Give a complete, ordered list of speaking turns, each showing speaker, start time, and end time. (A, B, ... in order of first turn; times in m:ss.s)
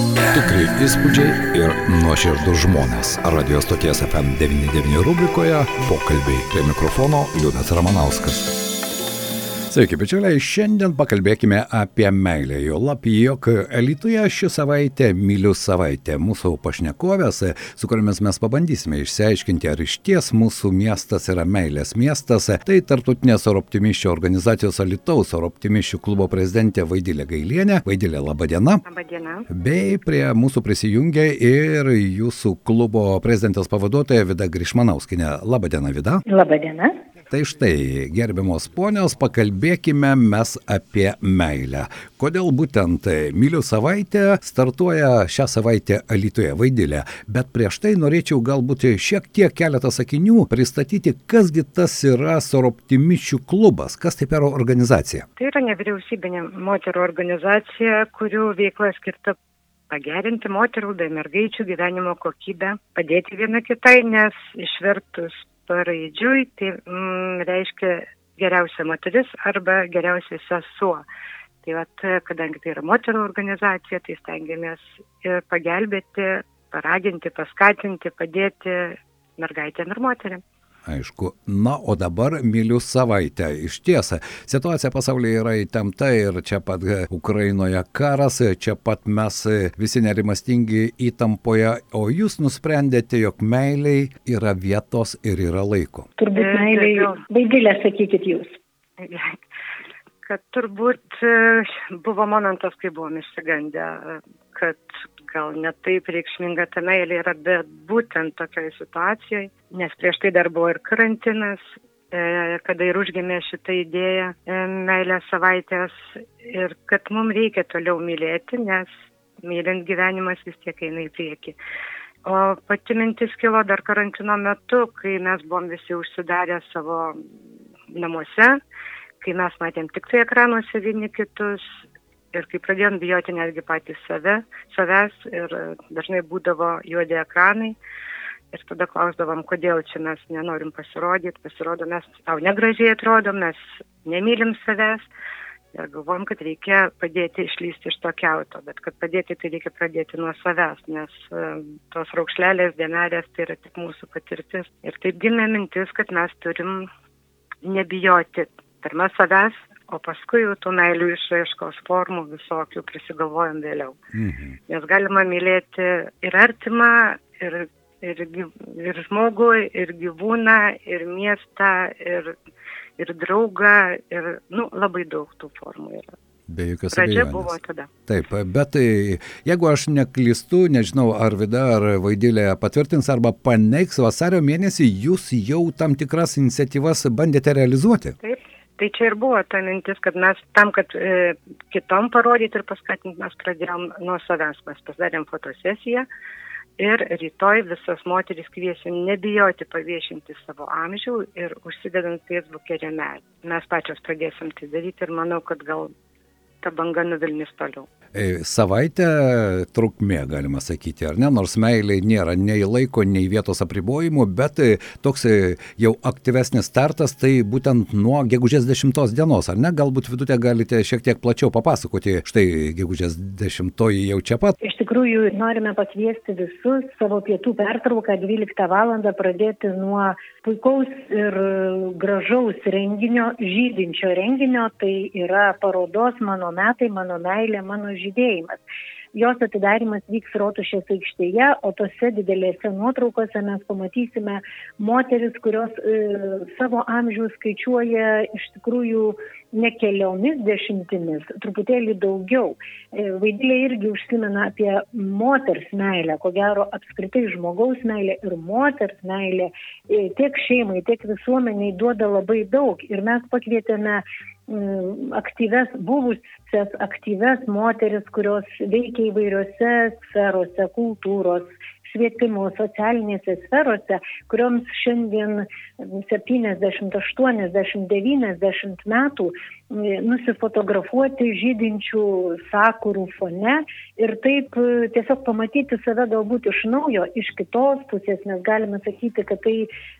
0:00.3-0:08.5 A
0:09.7-0:28.8 A
0:28.8-0:29.5 B
0:29.5-0:36.2 A
0:36.3-0:37.0 C
0:37.3-0:55.2 A
0:55.4-0:59.4 B
0:59.9-1:11.0 B
1:11.6-1:20.4 B
1:20.8-1:36.1 A
1:36.2-1:38.6 C
1:36.3-1:37.2 B
1:39.0-1:39.4 B
1:40.2-1:58.9 B
1:59.4-2:01.6 B
2:02.2-2:07.2 B
2:07.9-2:08.6 B
2:09.2-2:17.8 B
2:18.5-2:25.1 B
2:25.7-2:36.9 B
2:37.6-2:44.0 B
2:44.1-2:44.6 A
2:44.7-2:52.4 B
2:53.0-2:56.1 B
2:56.5-2:57.5 A
2:56.9-2:57.9 B
2:58.1-3:08.2 A
3:08.2-3:16.1 B
3:16.8-3:25.9 B
3:26.6-3:27.9 B
3:28.1-3:44.5 A
3:44.6-3:58.6 C
3:59.1-4:49.7 C